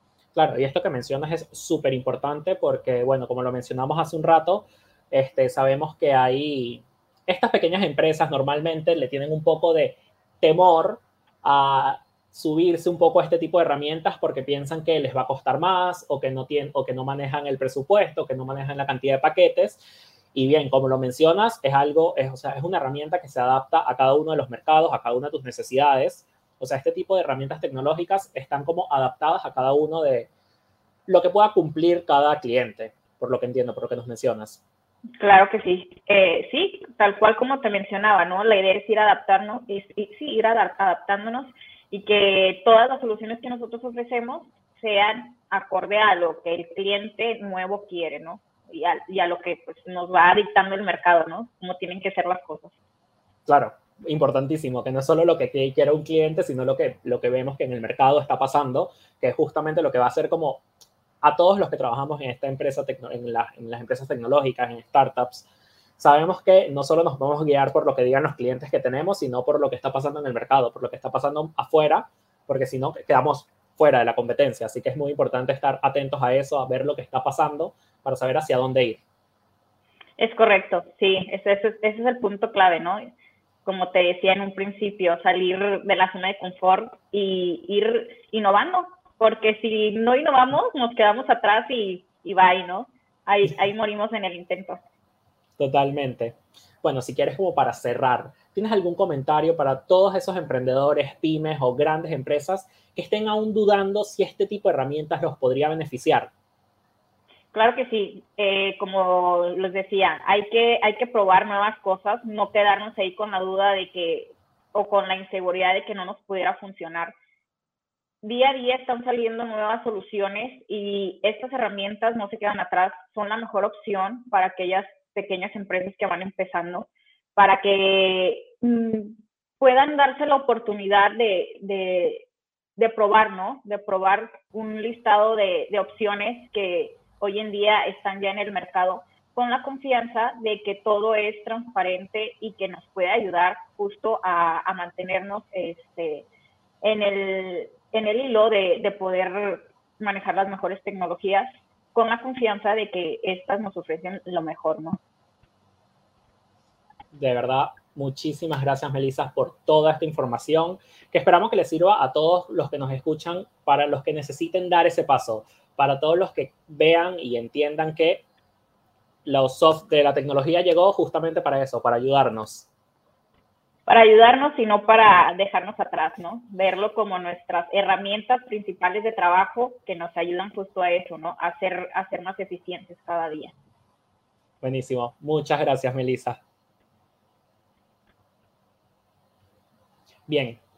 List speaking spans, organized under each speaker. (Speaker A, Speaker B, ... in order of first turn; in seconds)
Speaker A: 0.3-19.8, 20.3-30.3, 31.1-34.6, 53.5-60.6, 61.2-65.5, 66.0-79.0, 95.6-106.3, 157.1-168.2, 169.2-172.7, 184.6-186.4, 190.3-190.6
Speaker B: 35.2-52.7, 80.2-83.1, 83.6-94.8, 107.5-117.1, 118.2-132.2, 132.8-146.3, 146.8-155.0, 173.9-183.5